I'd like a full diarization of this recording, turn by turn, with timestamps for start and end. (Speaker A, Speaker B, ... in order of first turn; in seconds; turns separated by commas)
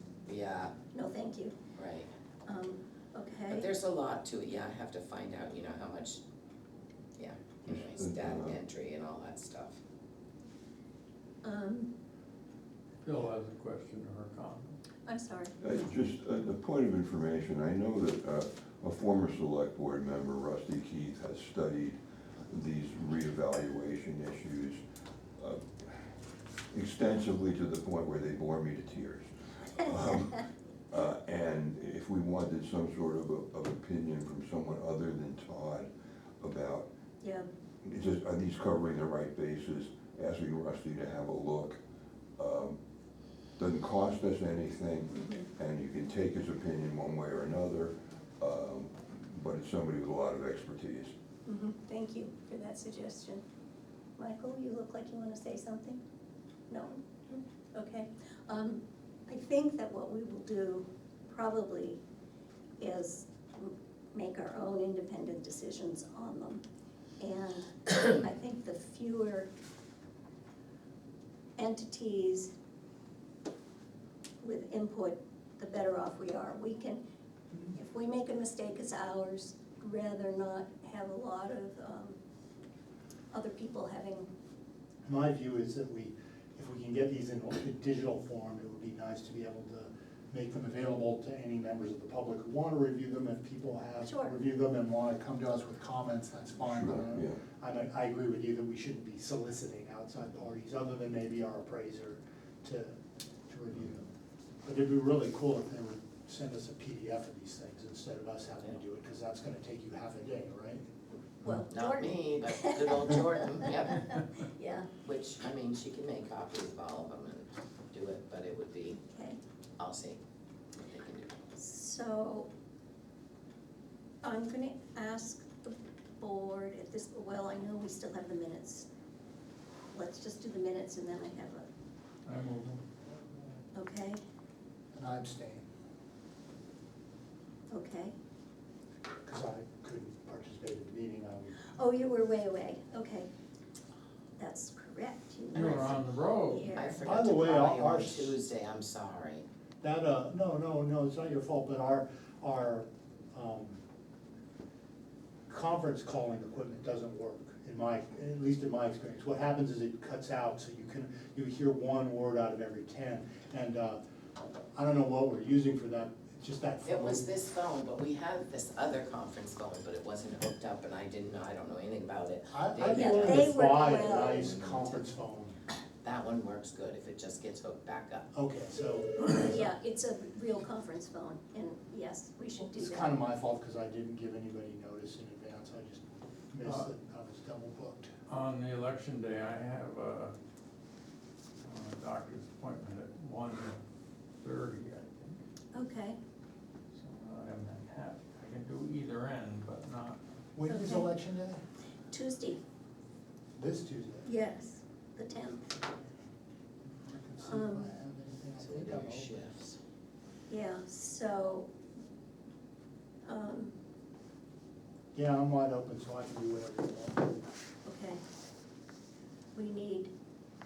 Speaker A: 0.3-0.8, Speaker B: 0.9-1.6, Speaker A: 1.8-2.1, Speaker B: 2.5-3.7, Speaker A: 3.5-6.2, Speaker A: 7.2-9.8, Speaker C: 7.7-8.6, Speaker B: 11.4-11.9, Speaker D: 13.0-14.8, Speaker B: 15.1-15.6, Speaker C: 15.6-24.8, Speaker C: 25.4-26.2, Speaker C: 26.7-35.9, Speaker C: 36.4-36.9, Speaker B: 37.2-37.5, Speaker C: 37.8-41.8, Speaker C: 42.4-42.8, Speaker C: 43.6-51.1, Speaker B: 45.1-45.5, Speaker B: 51.5-53.4, Speaker B: 54.2-56.0, Speaker B: 56.7-62.0, Speaker B: 62.8-66.6, Speaker B: 67.2-69.5, Speaker B: 71.6-72.5, Speaker B: 74.4-77.0, Speaker B: 77.7-82.2, Speaker B: 83.3-84.3, Speaker E: 85.0-102.9, Speaker B: 94.0-94.4, Speaker C: 96.7-97.4, Speaker E: 103.5-104.1, Speaker E: 104.7-110.9, Speaker B: 111.4-114.9, Speaker A: 111.7-114.1, Speaker A: 115.0-119.0, Speaker B: 119.1-119.4, Speaker A: 119.8-120.2, Speaker A: 120.8-121.4, Speaker B: 121.6-122.5, Speaker B: 124.2-128.9, Speaker B: 129.9-131.7, Speaker D: 132.2-132.8, Speaker B: 133.8-134.2, Speaker E: 134.9-135.7, Speaker B: 137.7-138.1, Speaker E: 139.2-141.6, Speaker B: 141.6-143.3, Speaker B: 144.4-147.1, Speaker D: 145.5-146.8, Speaker A: 145.6-145.9, Speaker A: 146.7-149.5, Speaker E: 147.0-148.4, Speaker E: 149.8-153.8, Speaker E: 155.5-164.0, Speaker E: 164.7-167.3, Speaker A: 166.8-175.0, Speaker E: 172.5-175.5, Speaker B: 172.9-174.4, Speaker A: 176.0-178.3, Speaker E: 178.3-179.7, Speaker B: 179.2-183.2, Speaker E: 182.6-188.1, Speaker D: 186.6-186.9, Speaker D: 188.3-190.3, Speaker D: 191.6-193.8, Speaker D: 194.4-195.4, Speaker B: 195.7-196.2, Speaker D: 196.9-200.2, Speaker E: 200.6-201.6, Speaker B: 200.7-201.2, Speaker B: 202.1-202.6, Speaker E: 203.6-204.3, Speaker B: 204.2-205.8, Speaker E: 206.9-209.4, Speaker B: 207.4-208.0, Speaker A: 208.6-209.8, Speaker B: 210.5-211.7, Speaker B: 213.2-213.7, Speaker E: 215.1-217.4, Speaker B: 217.8-218.2, Speaker B: 219.6-220.1